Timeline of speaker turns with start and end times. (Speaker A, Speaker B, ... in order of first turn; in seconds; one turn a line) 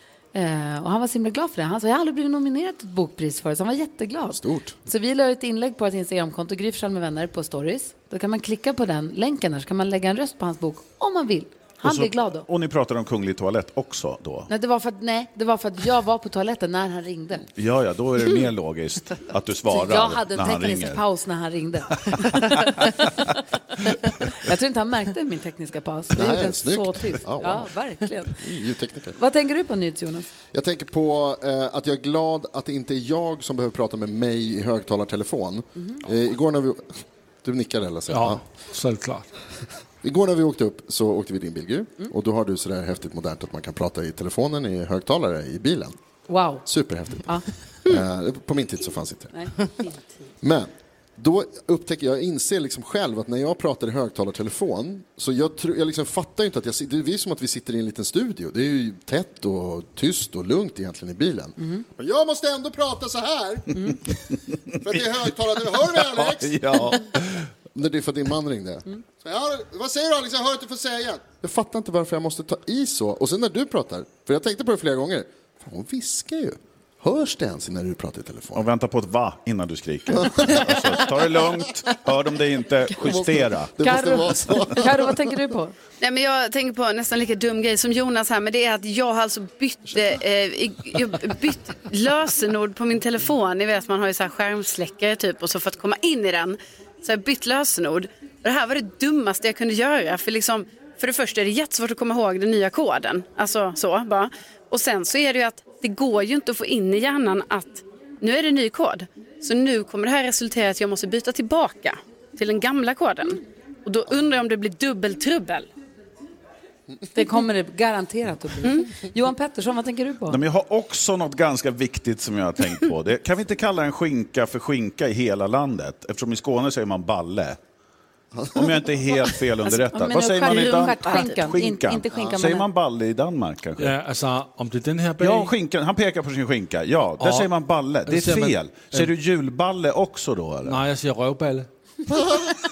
Speaker A: 0.3-12.4
Speaker B: 4.3-4.8
Speaker C: 11.8-14.5
Speaker A: 14.5-17.4
Speaker C: 17.6-21.0
Speaker A: 19.7-28.4
Speaker C: 22.1-22.7
Speaker B: 26.1-27.7
Speaker B: 28.3-29.2
Speaker A: 29.1-30.3
Speaker B: 30.5-38.4
Speaker D: 38.1-39.3
Speaker B: 40.0-46.0
Speaker A: 46.3-46.6
Speaker B: 46.6-49.3
Speaker A: 49.3-50.3
Speaker B: 50.4-63.9
Speaker B: 64.8-67.0
Speaker C: 65.7-67.5
Speaker B: 67.7-78.7
Speaker C: 78.5-83.8
Speaker B: 80.2-80.9
Speaker B: 83.0-85.2
Speaker A: 83.8-85.7
Speaker E: 86.0-115.7
Speaker A: 117.1-120.4
Speaker E: 118.6-118.9
Speaker C: 120.3-127.6
Speaker B: 128.3-128.6
Speaker C: 128.5-133.9
Speaker A: 129.8-132.7
Speaker E: 130.4-131.4
Speaker D: 133.8-135.5
Speaker C: 135.2-140.8
Speaker D: 137.2-137.5
Speaker D: 138.1-139.1
Speaker D: 140.6-141.7